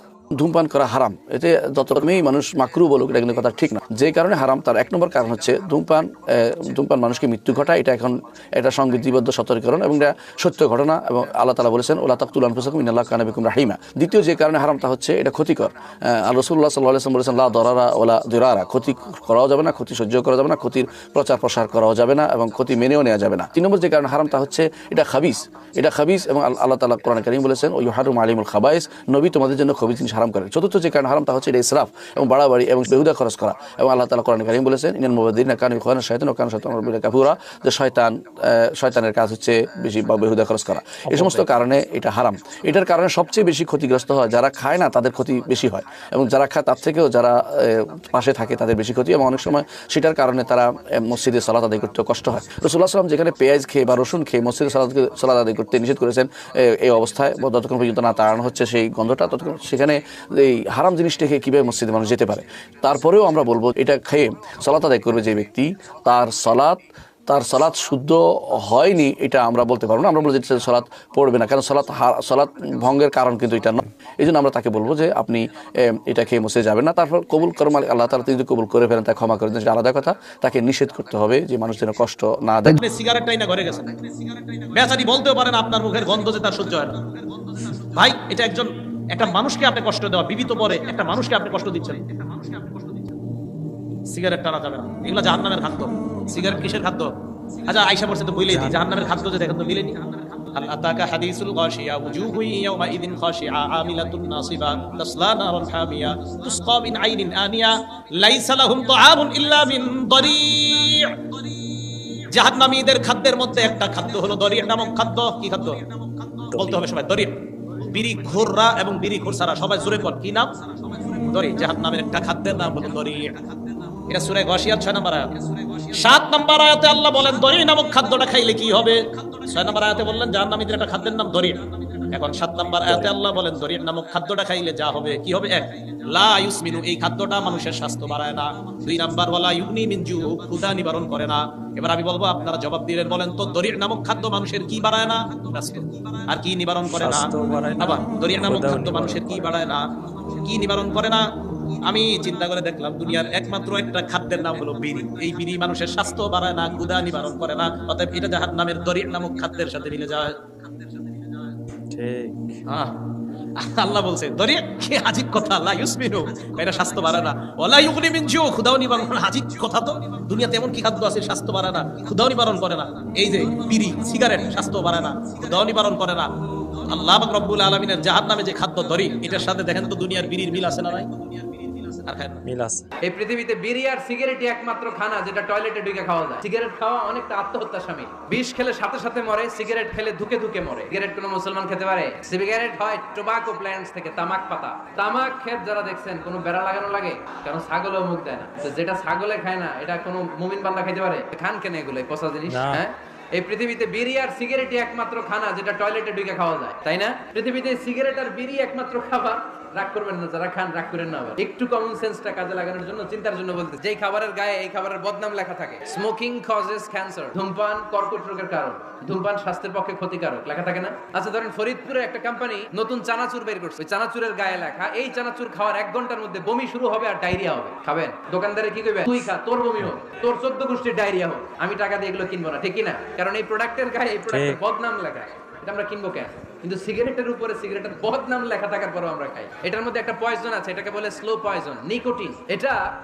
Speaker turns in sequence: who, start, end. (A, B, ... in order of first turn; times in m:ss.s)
0:00.4-1:22.8 A
0:41.1-0:41.4 B
1:22.8-1:24.0 C
1:24.7-1:27.0 C
1:27.9-1:32.8 C
1:34.1-1:37.1 C
1:37.7-1:51.1 C
1:38.5-1:38.9 B
1:52.3-1:55.8 C
1:56.5-1:56.9 B
1:56.5-1:57.4 C
1:57.9-2:00.5 C
2:01.2-2:03.4 C
2:04.1-2:05.4 C
2:05.9-2:29.9 C
2:12.9-2:13.1 B
2:26.9-2:29.6 B
2:30.4-2:31.3 C
2:31.9-2:40.4 C
2:41.9-2:42.3 B
2:42.7-2:43.0 C
2:43.6-2:56.3 C
2:56.9-3:01.1 C
3:02.0-3:02.4 C
3:02.4-3:02.9 B
3:03.0-4:02.8 D
3:22.5-3:22.8 B
3:54.3-3:54.6 B